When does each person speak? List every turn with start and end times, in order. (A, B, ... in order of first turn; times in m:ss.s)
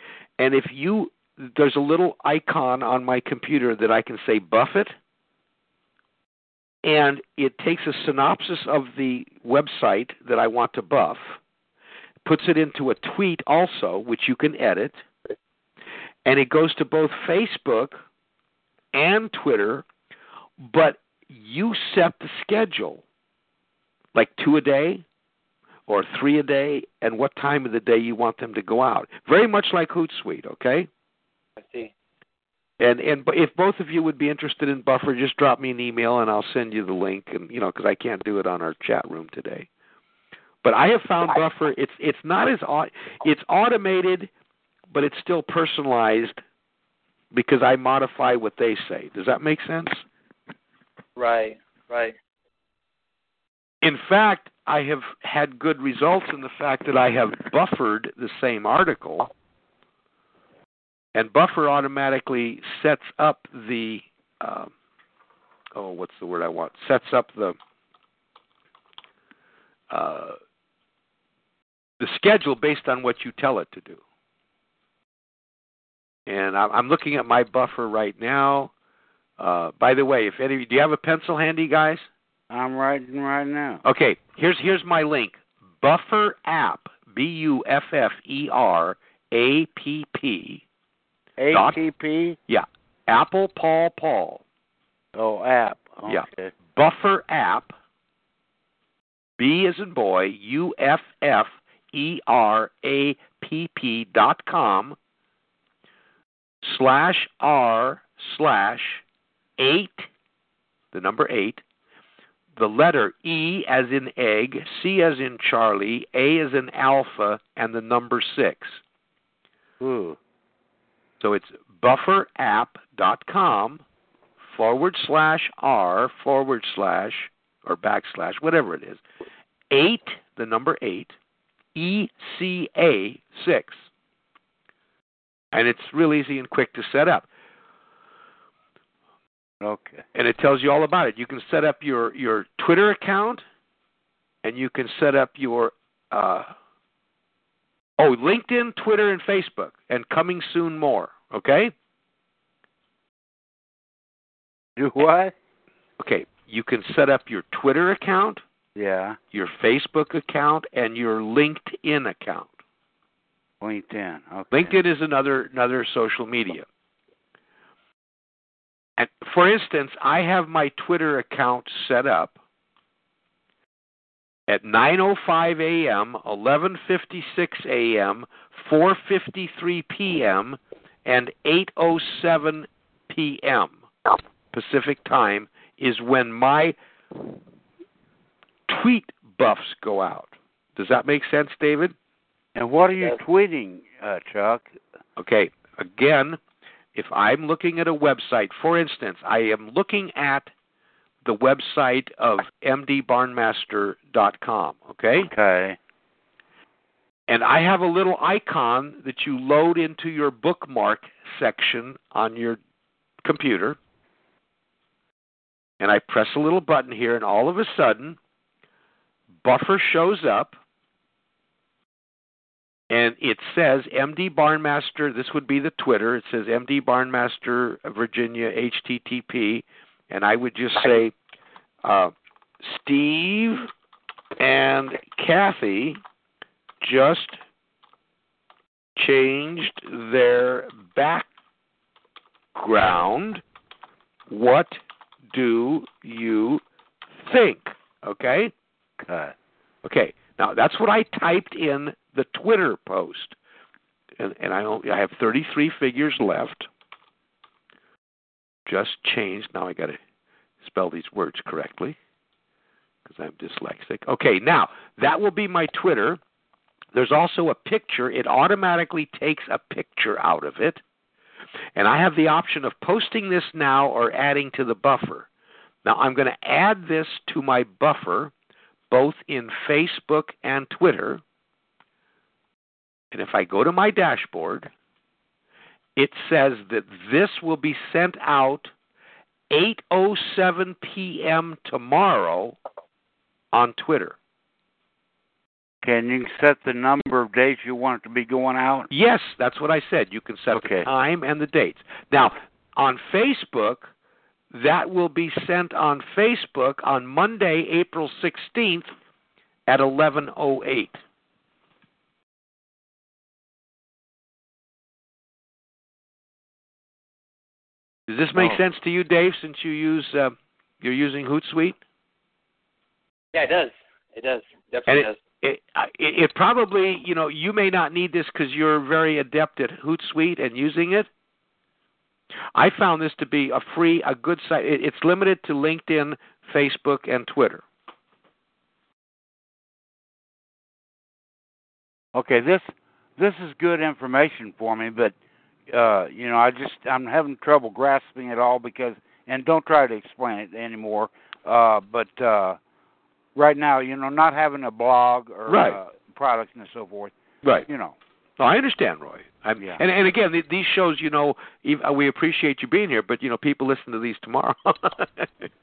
0:00.4-0:05.0 A
0:06.8-0:11.4 A
0:12.2-0:15.0 A
0:16.2-0:18.0 A
0:18.9-0:19.9 A
0:20.6-0:23.0 A
0:24.1-0:25.0 A
0:25.9-0:30.9 A
0:31.6-0:31.9 B
0:32.8-0:39.7 A
0:40.6-0:44.3 A
0:44.9-0:46.4 A
0:47.3-0:50.0 A
0:51.2-0:52.2 B
0:53.8-0:59.3 A
1:01.1-1:04.7 A
1:05.8-1:07.6 A
1:09.9-1:10.4 A
1:12.0-1:14.0 A
1:16.3-1:18.7 A
1:19.4-1:22.1 A
1:22.5-1:23.8 C
1:23.8-1:30.6 A
1:31.4-1:32.4 C
1:31.5-1:31.8 A
1:32.5-1:34.4 A
1:35.2-1:36.5 C
1:36.1-1:37.8 A
1:39.4-1:45.0 A
1:46.6-1:49.0 A
1:49.6-1:50.1 A
1:50.9-1:51.6 A
1:52.6-1:58.8 A
1:59.8-2:00.2 C
2:01.2-2:03.8 A
2:04.4-2:09.0 A
2:09.7-2:11.2 A
2:11.8-2:13.8 A
2:15.5-2:17.3 A
2:19.6-2:20.0 C
2:20.2-2:23.4 A
2:24.4-2:26.5 A
2:28.0-2:31.7 A
2:34.8-2:35.3 C
2:36.0-2:38.4 A
2:38.8-2:39.2 C
2:39.3-2:42.5 A
2:43.6-2:44.8 C
2:44.5-2:46.7 A
2:49.0-2:52.4 A
2:54.5-3:03.8 A
3:04.5-3:06.8 A
3:08.7-3:12.0 A
3:12.6-3:14.8 C
3:15.2-3:16.4 A
3:17.0-3:20.5 A
3:21.2-3:25.3 A
3:25.3-3:25.8 C
3:27.3-3:32.6 A
3:33.2-3:33.8 A
3:35.8-3:38.2 A
3:39.4-3:40.6 A
3:42.9-3:51.1 A
3:51.8-3:53.7 A
3:54.4-3:56.0 A
3:56.8-3:57.4 A
3:59.0-4:01.3 A
4:02.5-4:03.4 A
4:04.3-4:04.8 A
4:05.3-4:06.6 A
4:07.2-4:08.5 A
4:09.0-4:09.4 C
4:09.8-4:13.4 A
4:14.2-4:16.7 A
4:18.7-4:20.0 A
4:20.6-4:22.0 A
4:23.0-4:26.2 A
4:26.9-4:30.8 A
4:31.8-4:35.3 A
4:35.8-4:38.3 A
4:38.9-4:41.2 A
4:43.1-4:44.7 A
4:46.0-4:48.7 A
4:49.5-4:52.6 A
4:53.5-4:54.2 A
4:55.8-4:58.9 C
4:58.9-5:03.9 A
5:00.5-5:00.9 C
5:04.5-5:08.9 A
5:09.7-5:11.0 A
5:18.1-5:21.8 A
5:23.3-5:25.2 B
5:24.9-5:31.1 A
5:32.6-5:37.6 A
5:42.1-5:45.2 C
5:45.7-5:52.6 C
5:53.4-5:57.1 C
5:55.5-5:55.8 A
5:57.7-5:58.0 C
5:58.4-6:05.5 A